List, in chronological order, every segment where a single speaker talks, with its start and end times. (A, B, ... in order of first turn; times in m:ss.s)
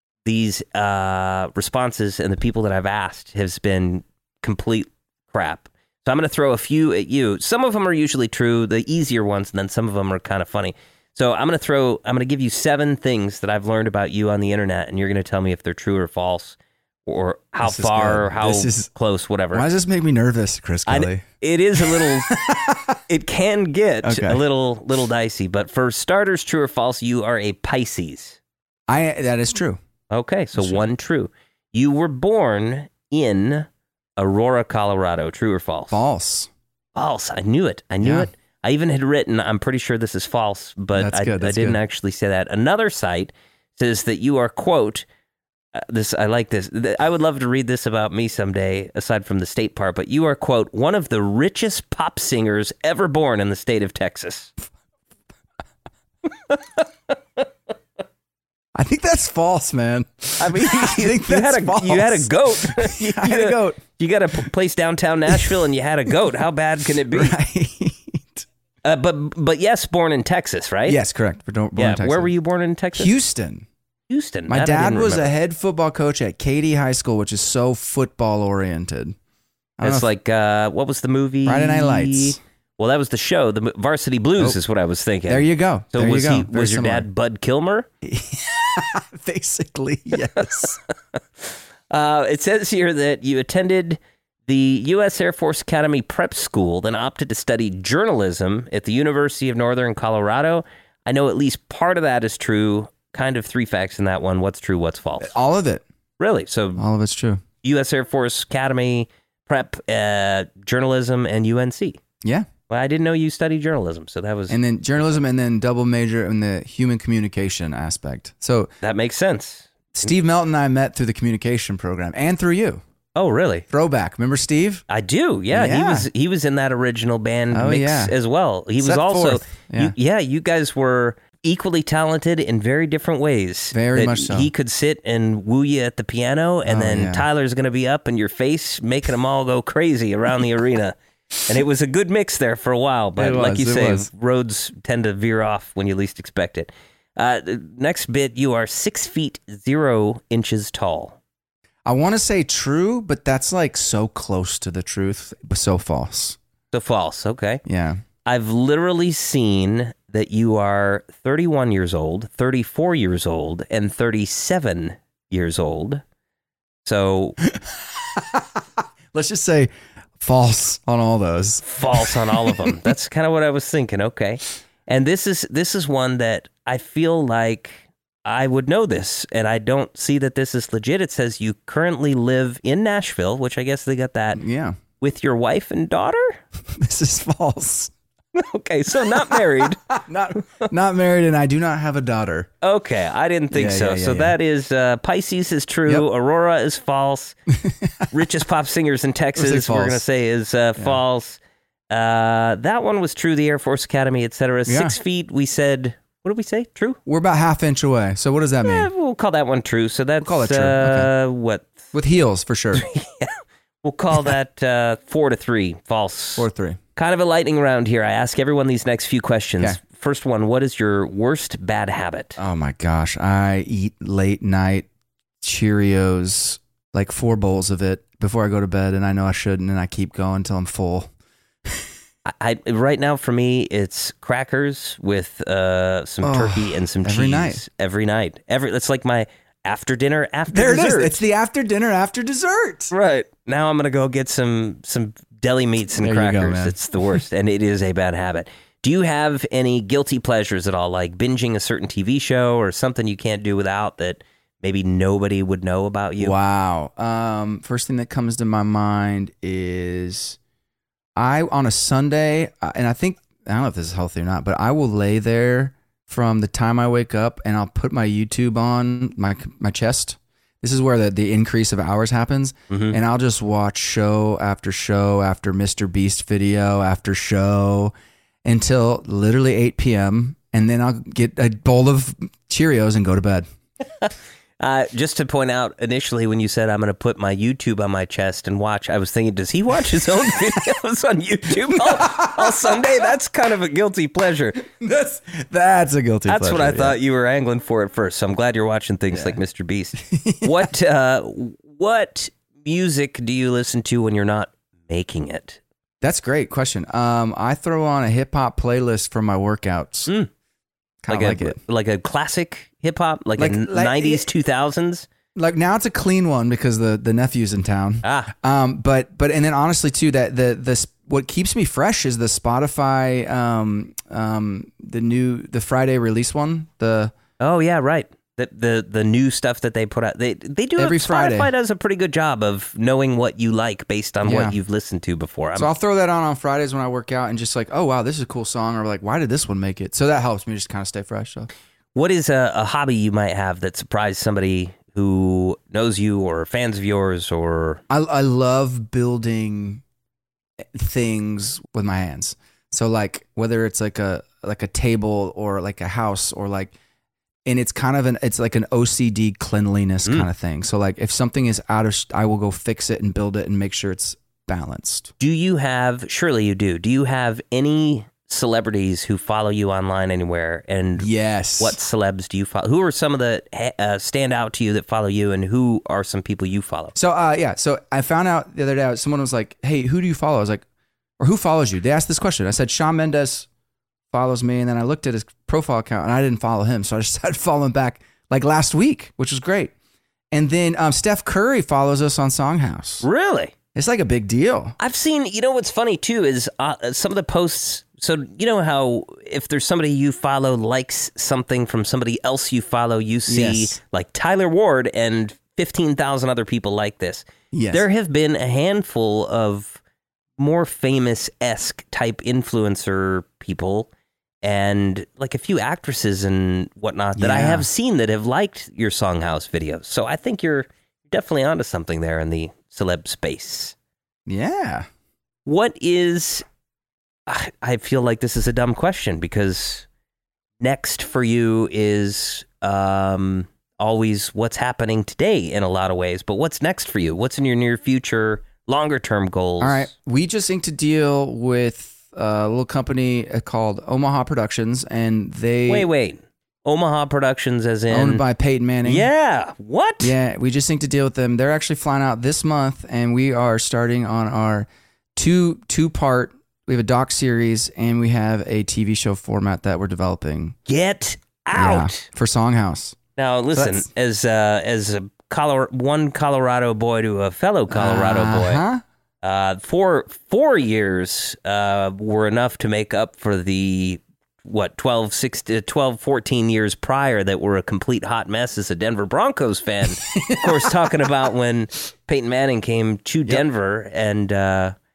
0:00.2-0:19.6 A
0:17.6-0:18.9 B
0:19.5-0:21.2 B
0:20.8-0:22.3 A
0:21.7-0:23.0 B
0:23.1-0:28.4 A
0:24.0-0:24.4 B
0:28.9-0:29.8 B
0:30.1-0:36.0 A
0:30.6-0:30.8 B
0:35.9-0:36.5 B
0:36.9-0:45.0 A
0:38.0-0:38.3 B
0:41.0-0:41.8 B
0:45.7-0:54.5 A
0:56.5-0:56.8 A
0:58.7-1:03.8 B
1:00.4-1:07.3 A
1:05.3-1:05.6 B
1:07.0-1:08.4 B
1:08.8-1:11.0 A
1:10.8-1:12.3 B
1:11.8-1:13.1 A
1:12.9-1:13.7 B
1:14.1-1:15.3 A
1:14.5-1:19.2 B
1:19.8-1:20.1 B
1:19.8-1:27.9 A
1:21.4-1:22.4 B
1:25.3-1:27.1 B
1:28.0-1:30.8 B
1:31.4-1:45.3 A
1:45.2-1:45.8 B
1:46.2-1:46.8 A
1:46.8-1:47.4 B
1:47.6-1:52.0 A
1:52.7-1:54.6 A
1:54.5-1:58.7 B
1:58.8-1:59.7 A
1:59.9-2:02.8 B
2:03.1-2:03.6 A
2:03.7-2:04.8 B
2:04.9-2:31.2 A
2:05.5-2:06.1 B
2:07.5-2:08.1 B
2:08.8-2:09.9 B
2:13.7-2:14.5 B
2:16.6-2:17.2 B
2:23.2-2:24.1 B
2:31.8-2:36.4 B
2:36.7-2:37.6 A
2:37.6-2:38.0 B
2:38.2-2:46.0 A
2:46.8-2:47.4 A
2:47.5-2:52.8 B
2:51.6-3:04.4 A
3:04.4-3:04.8 B
3:05.0-3:06.4 A
3:06.7-3:07.9 B
3:08.3-3:09.8 A
3:09.3-3:12.5 B
3:12.6-3:17.4 A
3:13.5-3:14.3 B
3:17.6-3:18.1 B
3:18.1-3:21.4 A
3:19.4-3:20.0 B
3:21.9-3:27.0 A
3:24.6-3:24.9 B
3:27.0-3:28.9 B
3:28.6-3:31.8 A
3:30.2-3:31.1 B
3:31.9-3:32.8 B
3:32.7-3:42.4 A
3:36.4-3:36.8 B
3:42.4-3:44.9 B
3:45.4-3:51.1 B
3:52.2-4:01.2 A
3:56.2-3:57.6 B
4:00.5-4:02.9 B
4:02.9-4:16.3 A
4:05.9-4:07.2 B
4:16.2-4:20.4 B
4:21.2-4:43.5 B
4:32.7-4:33.0 A
4:44.0-4:54.6 A
4:51.7-4:52.8 B
4:54.6-4:57.0 B
4:56.2-5:05.6 A
4:59.1-4:59.4 B
5:00.0-5:00.7 B
5:06.0-5:10.1 B
5:11.0-5:11.6 B
5:11.1-5:15.1 A
5:13.4-5:14.3 B
5:15.3-5:27.1 B
5:18.0-5:18.3 A
5:27.4-5:35.7 A
5:30.8-5:31.5 B
5:34.2-5:34.6 B
5:35.5-5:41.5 B
5:41.9-5:47.8 A
5:47.9-5:49.8 B
5:50.7-5:56.7 B
5:57.4-6:05.1 B
6:05.2-6:16.9 A
6:11.0-6:11.8 B
6:16.9-6:20.6 B
6:21.2-6:23.5 B
6:24.1-6:29.7 B
6:30.3-6:33.0 B
6:33.0-6:33.5 A
6:33.7-6:34.8 B
6:34.8-6:49.8 A
6:43.3-6:43.8 B
6:47.5-6:47.8 B
6:50.4-6:53.9 A
6:54.4-7:03.7 A
6:57.2-6:57.7 B
7:04.2-7:04.9 B
7:05.4-7:06.4 A
7:07.3-7:09.8 A
7:10.6-7:19.9 A
7:19.6-7:25.9 B
7:25.7-7:28.2 A
7:27.9-7:29.1 B
7:28.8-7:30.1 A
7:30.0-7:40.6 B
7:40.7-7:42.0 A
7:41.5-7:43.0 B
7:43.2-7:48.6 A
7:43.5-7:43.9 B
7:47.7-7:48.8 B
7:49.2-8:04.7 A
8:00.2-8:00.7 B